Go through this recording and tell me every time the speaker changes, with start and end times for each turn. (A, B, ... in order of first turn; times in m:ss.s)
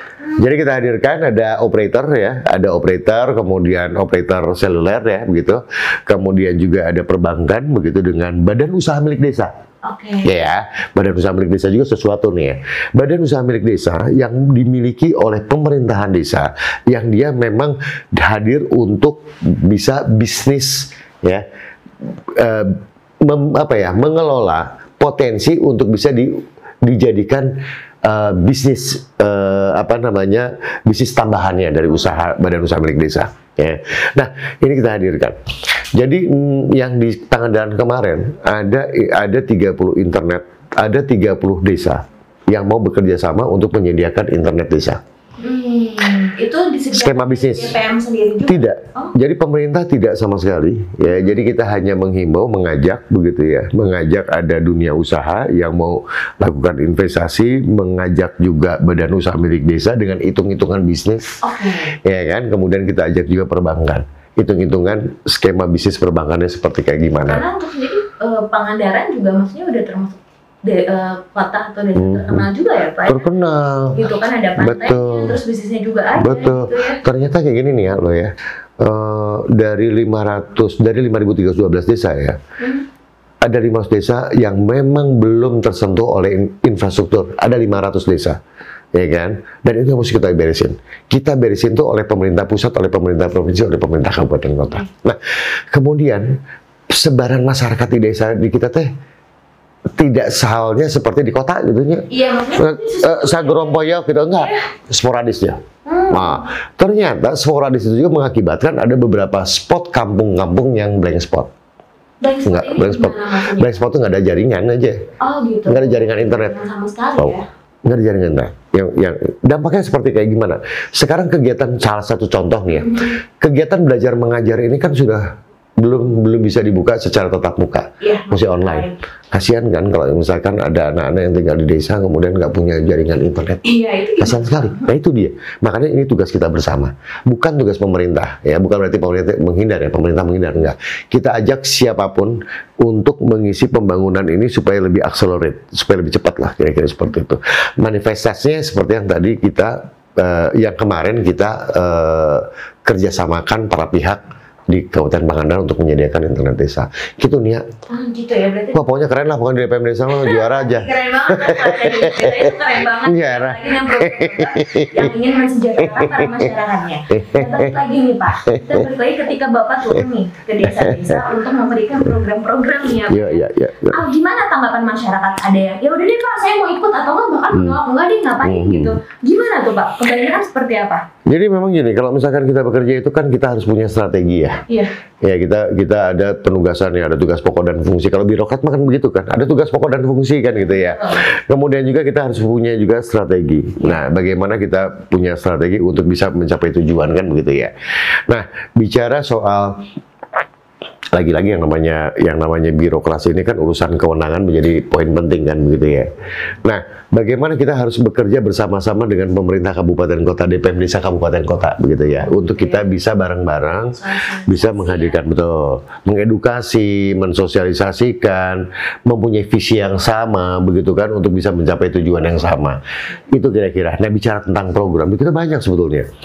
0:00.2-0:00.5 A
0:00.4-0:09.5 B
0:09.8-0:10.3 A
0:10.2-0:21.4 B
0:22.0-0:27.5 B
0:28.0-0:35.4 B
0:36.0-0:45.0 B
0:45.4-0:49.1 A
0:46.9-0:47.8 B
0:48.4-1:01.3 B
0:51.1-0:51.4 A
1:01.4-1:02.0 A
1:02.0-1:07.4 B
1:07.3-1:13.3 A
1:12.0-1:12.5 B
1:13.1-1:14.0 B
1:13.9-1:17.0 A
1:14.6-1:15.4 B
1:16.2-1:22.4 B
1:22.6-1:22.9 A
1:23.4-1:28.4 B
1:28.9-1:36.3 B
1:36.9-1:38.9 B
1:40.0-1:51.5 B
1:42.1-1:43.8 A
1:44.4-1:44.6 A
1:45.9-1:46.5 A
1:52.2-1:53.8 A
1:52.4-1:55.0 B
1:55.2-1:57.5 A
1:55.7-1:56.5 B
1:57.2-2:13.6 B
2:02.7-2:03.2 A
2:08.0-2:09.0 A
2:13.6-2:14.8 A
2:14.2-2:37.6 B
2:37.9-2:38.8 A
2:38.7-2:45.2 B
2:40.1-3:01.0 A
2:45.8-2:46.5 B
2:47.1-2:47.8 B
2:48.4-2:48.9 B
2:50.6-2:51.2 B
2:53.1-2:54.0 B
2:57.5-2:57.8 B
2:58.4-2:58.9 B
3:01.3-3:04.6 B
3:05.2-3:17.7 B
3:10.6-3:11.2 A
3:18.3-3:19.8 B
3:21.1-3:26.1 B
3:26.6-3:46.1 B
3:32.0-3:32.9 A
3:33.9-3:35.2 A